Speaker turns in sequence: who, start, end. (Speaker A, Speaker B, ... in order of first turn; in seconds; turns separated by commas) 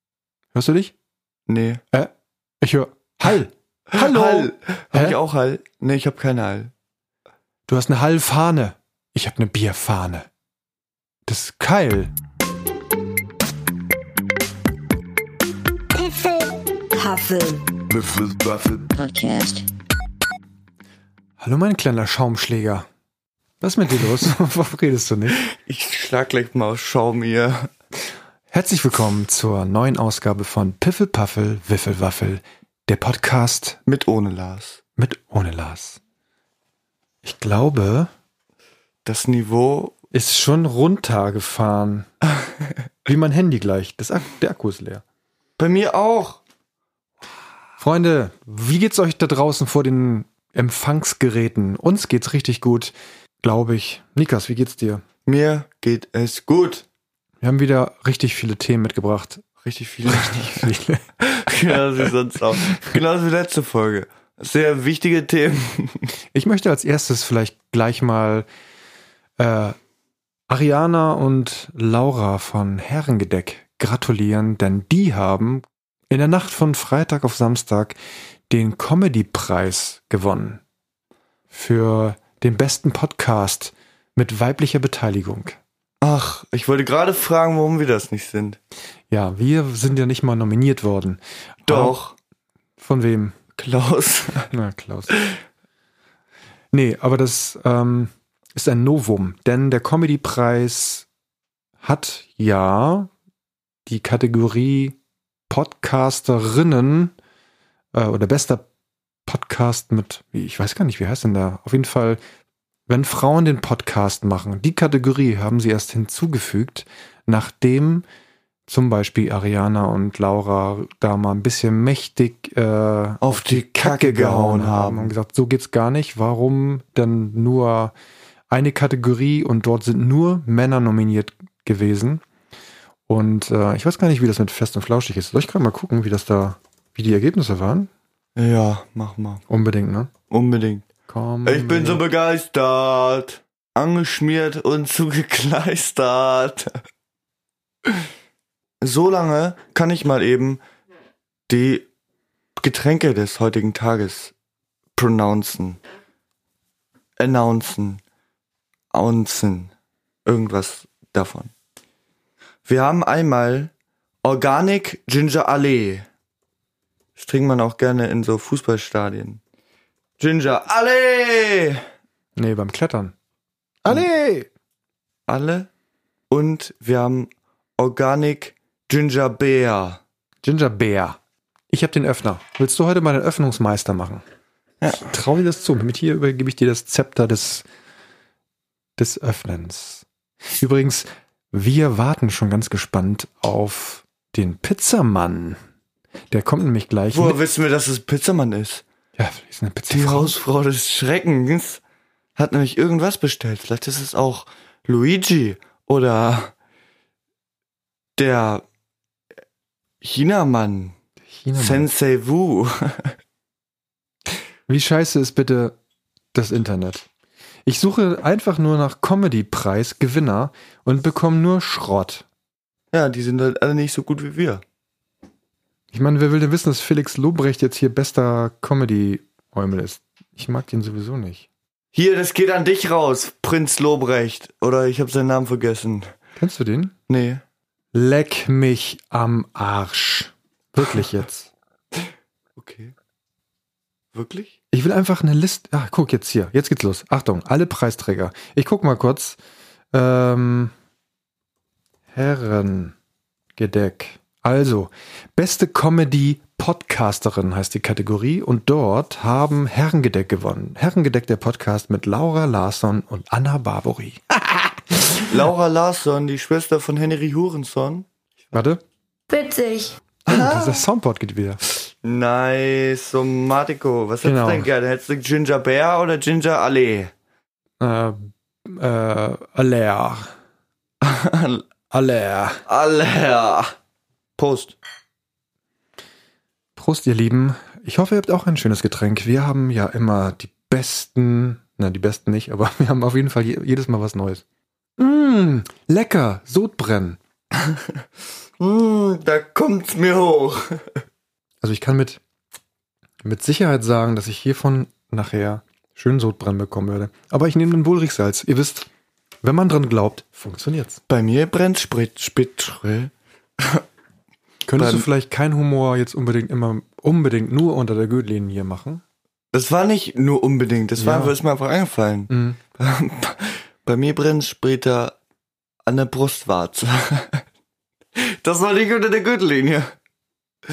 Speaker A: 0.5-0.9, Speaker B: 1.5-1.8, Speaker A: 1.9-5.2, Speaker B: 3.9-6.7, Speaker A: 7.7-10.3, Speaker A: 11.3-12.1, Speaker C: 15.9-19.6, Speaker A: 21.4-22.9, Speaker A: 23.6-25.4, Speaker B: 25.4-27.7, Speaker A: 28.5-33.8, Speaker B: 33.9-34.8, Speaker A: 35.0-36.0, Speaker A: 37.2-38.1, Speaker B: 39.0-40.0, Speaker A: 40.1-42.1, Speaker A: 43.1-45.0, Speaker B: 45.6-46.4, Speaker A: 47.8-55.0, Speaker B: 55.3-56.9, Speaker A: 57.4-59.5, Speaker B: 59.6-60.7, Speaker A: 60.0-62.1, Speaker B: 61.3-66.1, Speaker A: 66.3-68.5, Speaker A: 69.4-69.8, Speaker A: 70.5-78.0, Speaker A: 78.5-80.6, Speaker A: 81.5-85.6, Speaker B: 86.0-88.6, Speaker A: 89.1-92.0, Speaker B: 91.7-92.2, Speaker A: 92.8-93.4, Speaker B: 93.6-94.5, Speaker A: 94.5-95.2, Speaker B: 95.1-95.4, Speaker A: 96.7-101.1, Speaker A: 101.8-103.1, Speaker A: 103.9-105.0, Speaker A: 105.5-107.1, Speaker A: 107.9-108.7, Speaker A: 109.3-112.2, Speaker A: 112.9-118.1, Speaker A: 118.7-127.9, Speaker B: 123.2-125.1, Speaker A: 128.5-132.2, Speaker A: 133.1-137.9, Speaker B: 138.4-139.4, Speaker A: 139.5-140.1, Speaker B: 140.3-140.9, Speaker A: 141.1-142.0, Speaker B: 141.4-146.8, Speaker B: 148.8-150.6, Speaker B: 151.5-151.9, Speaker B: 152.6-154.3, Speaker B: 155.0-155.8, Speaker B: 157.2-158.0, Speaker B: 158.9-159.7, Speaker B: 160.3-161.5, Speaker B: 162.7-163.7, Speaker B: 164.2-166.1, Speaker B: 167.2-169.4, Speaker B: 170.2-171.8, Speaker A: 172.4-173.2, Speaker A: 173.8-174.5, Speaker B: 175.3-175.7, Speaker B: 176.3-180.0, Speaker A: 180.4-181.2, Speaker A: 181.7-184.2, Speaker A: 184.9-187.7, Speaker A: 189.0-195.6, Speaker A: 196.3-197.4, Speaker B: 197.1-198.8, Speaker A: 199.2-200.3, Speaker B: 199.9-201.8, Speaker B: 202.4-206.5, Speaker B: 208.2-208.6, Speaker B: 210.0-211.0, Speaker A: 211.3-211.9, Speaker B: 211.6-213.2, Speaker A: 214.7-215.8, Speaker A: 216.3-217.1, Speaker A: 217.7-222.2, Speaker B: 222.9-224.6, Speaker A: 225.9-231.5, Speaker B: 231.9-236.2, Speaker A: 236.4-236.9, Speaker B: 237.1-237.4, Speaker A: 237.9-241.5, Speaker B: 242.6-242.9, Speaker B: 244.1-244.6, Speaker A: 244.7-249.4, Speaker A: 249.9-250.7, Speaker A: 252.1-252.9, Speaker A: 253.6-265.3, Speaker B: 265.2-268.1, Speaker A: 268.5-268.8, Speaker C: 269.3-270.0, Speaker B: 270.3-270.9, Speaker A: 270.3-271.6, Speaker B: 272.0-277.1, Speaker A: 274.2-274.7, Speaker A: 277.8-280.3, Speaker B: 281.0-281.6, Speaker A: 281.9-282.6, Speaker B: 282.7-283.8, Speaker B: 284.4-284.8, Speaker A: 286.8-294.4, Speaker A: 295.0-297.2, Speaker B: 297.6-297.9, Speaker B: 298.6-301.0, Speaker A: 301.6-302.2, Speaker A: 303.2-308.9, Speaker A: 309.4-311.0, Speaker B: 311.1-313.8, Speaker A: 314.7-319.0, Speaker B: 314.8-315.1, Speaker B: 319.5-325.2, Speaker A: 321.0-321.4, Speaker A: 322.3-322.6, Speaker B: 325.9-327.4, Speaker B: 328.2-330.0